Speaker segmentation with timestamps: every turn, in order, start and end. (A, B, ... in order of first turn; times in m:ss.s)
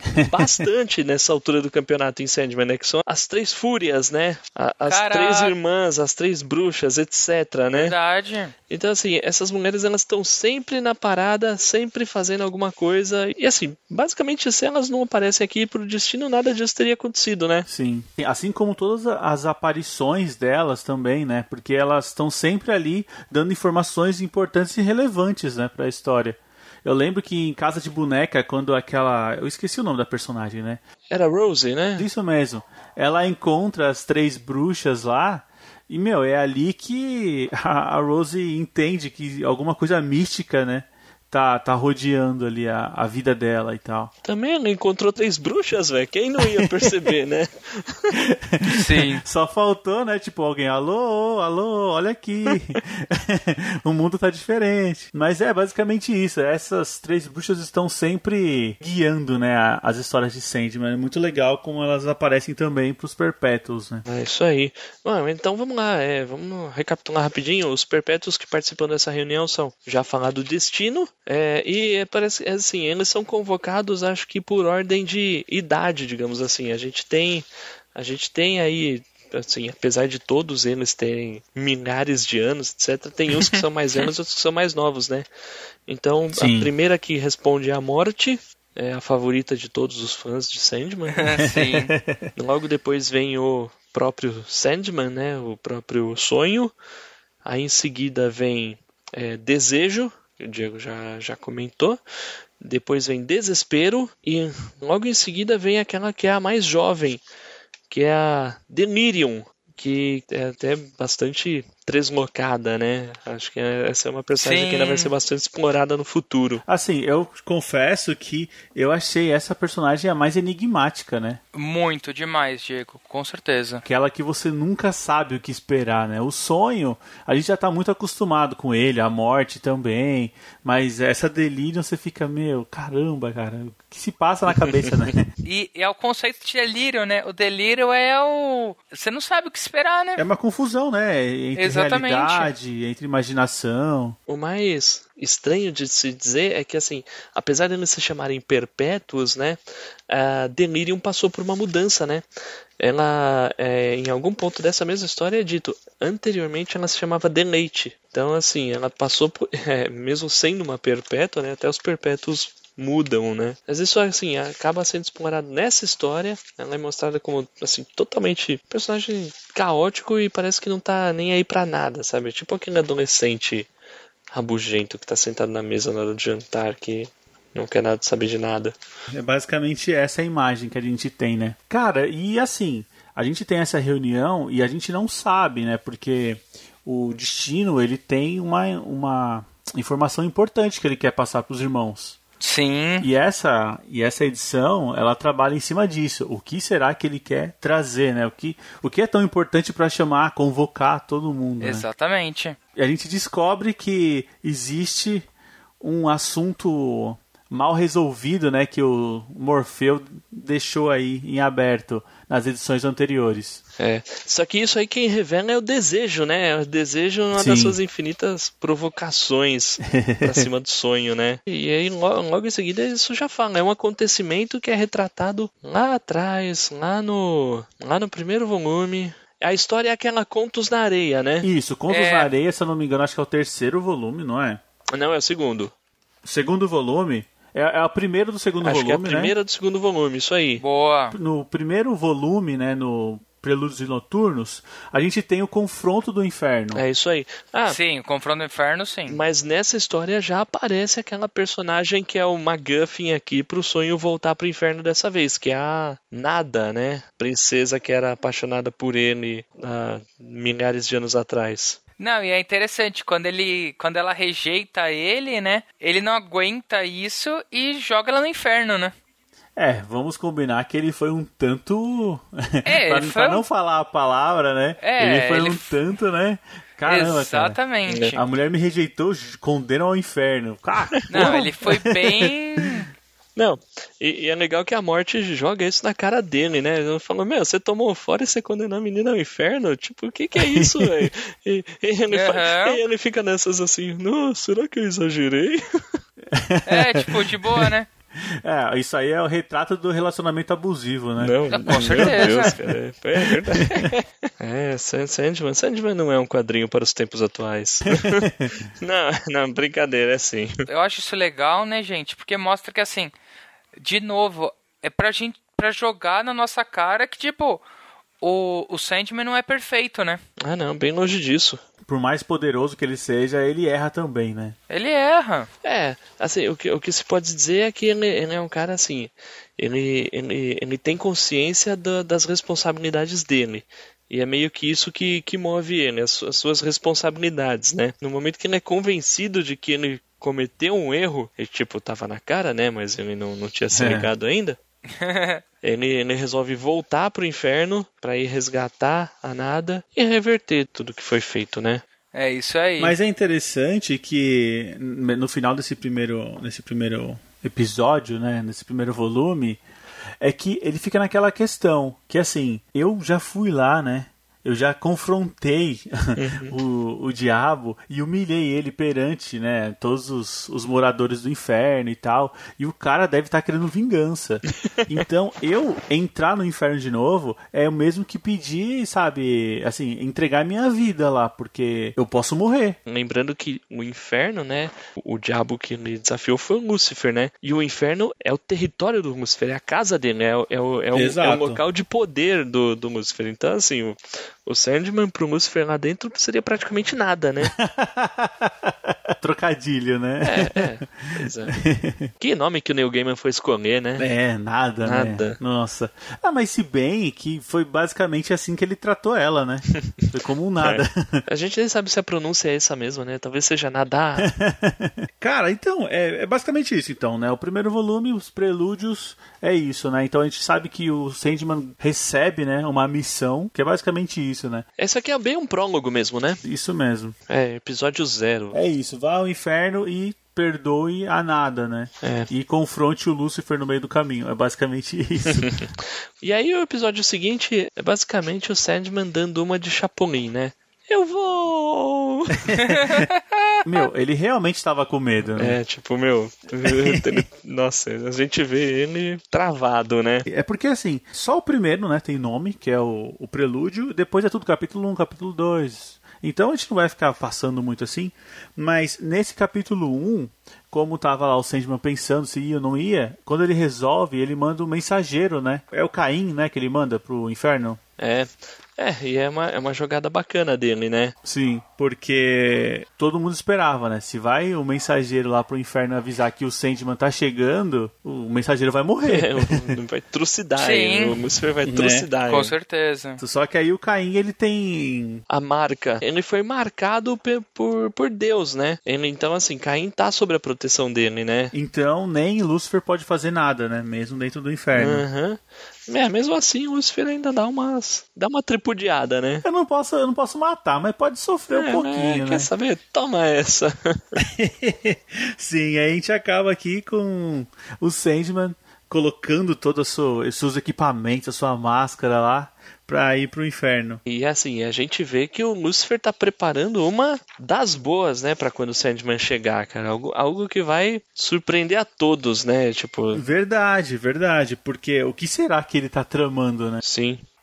0:00.2-0:00.4 A
0:00.2-0:07.9 B
0:04.9-0:05.5 C
0:07.7-0:08.5 C
0:08.7-0:17.7 B
0:17.7-0:30.8 A
0:31.1-0:32.1 B
0:32.0-0:44.1 A
0:44.2-0:48.2 B
0:46.4-0:47.0 A
0:48.1-1:04.0 A
0:48.7-0:49.2 C
1:04.1-1:25.3 B
1:25.9-1:31.3 B
1:26.4-1:26.7 A
1:31.2-1:31.9 C
1:31.4-1:32.3 A
1:32.4-1:36.7 B
1:37.4-1:42.0 B
1:42.6-1:47.2 B
1:47.9-1:56.6 B
1:54.3-1:55.1 C
1:56.7-2:01.4 A
2:01.5-2:03.8 C
2:03.8-2:15.3 A
2:15.4-2:20.2 C
2:20.2-2:24.2 A
2:21.6-2:22.5 C
2:24.3-2:32.2 B
2:32.8-2:53.7 B
2:54.3-2:58.8 B
2:59.1-3:12.2 A
3:12.4-3:13.1 C
3:13.0-3:21.9 A
3:21.6-3:22.6 C
3:22.8-3:25.3 A
3:25.8-3:33.6 A
3:33.8-3:51.5 B
3:37.4-3:37.8 A
3:39.8-3:40.5 A
3:51.4-3:54.6 A
3:51.9-3:52.3 C
3:54.9-3:55.7 B
3:56.2-3:59.3 A
3:58.6-4:00.6 B
4:00.6-4:01.2 C
4:01.1-4:06.8 A
4:06.7-4:07.8 B
4:07.7-4:09.2 C
4:09.1-4:21.8 B
4:22.0-4:28.9 C
4:29.6-4:37.6 A
4:32.7-4:33.4 C
4:34.8-4:35.8 C
4:36.9-4:38.2 C
4:37.9-4:38.2 B
4:38.2-4:42.7 A
4:41.1-4:42.9 C
4:43.4-4:56.0 B
4:50.4-4:51.1 A
4:52.1-4:52.8 C
4:56.3-5:02.6 A
4:56.7-4:57.9 C
5:01.2-5:10.6 B
5:01.5-5:02.5 C
5:03.3-5:03.9 A
5:07.9-5:08.5 A
5:10.7-5:13.1 C
5:13.8-5:17.6 C
5:18.2-5:20.2 C
5:20.4-5:21.6 B
5:21.8-5:24.6 A
5:24.7-5:25.5 C
5:25.6-5:44.6 B
5:43.8-5:44.1 A
5:44.9-5:45.4 C
5:45.6-5:51.8 B
5:52.1-5:53.0 C
5:52.8-5:59.6 A
6:00.2-6:22.8 A
6:06.2-6:06.6 B
6:22.9-6:37.5 B
6:31.0-6:31.6 A
6:37.4-6:42.1 A
6:40.2-6:41.6 B
6:42.2-6:44.1 B
6:44.0-6:51.2 A
6:44.8-6:45.4 B
6:50.6-6:54.3 B
6:54.2-7:04.6 A
7:04.8-7:06.4 B
7:06.4-7:07.2 A
7:07.3-7:08.6 B
7:08.5-7:15.6 A
7:12.0-7:12.3 B
7:15.4-7:22.5 B
7:22.4-7:23.1 A
7:22.6-7:23.6 C
7:23.6-7:25.6 A
7:25.4-7:30.3 B
7:26.6-7:27.2 A
7:30.3-7:47.8 A
7:48.0-7:51.2 B
7:51.2-7:59.8 A
7:59.0-8:02.5 B
8:00.6-8:01.2 C
8:01.6-8:02.1 A
8:02.3-8:03.2 C
8:03.2-8:05.2 A
8:05.3-8:11.5 B
8:11.5-8:15.0 A
8:14.8-8:19.4 B
8:19.4-8:22.5 A
8:21.5-8:24.2 B
8:24.2-8:34.0 A
8:34.1-8:43.2 B
8:43.1-8:46.8 A
8:46.8-8:47.2 B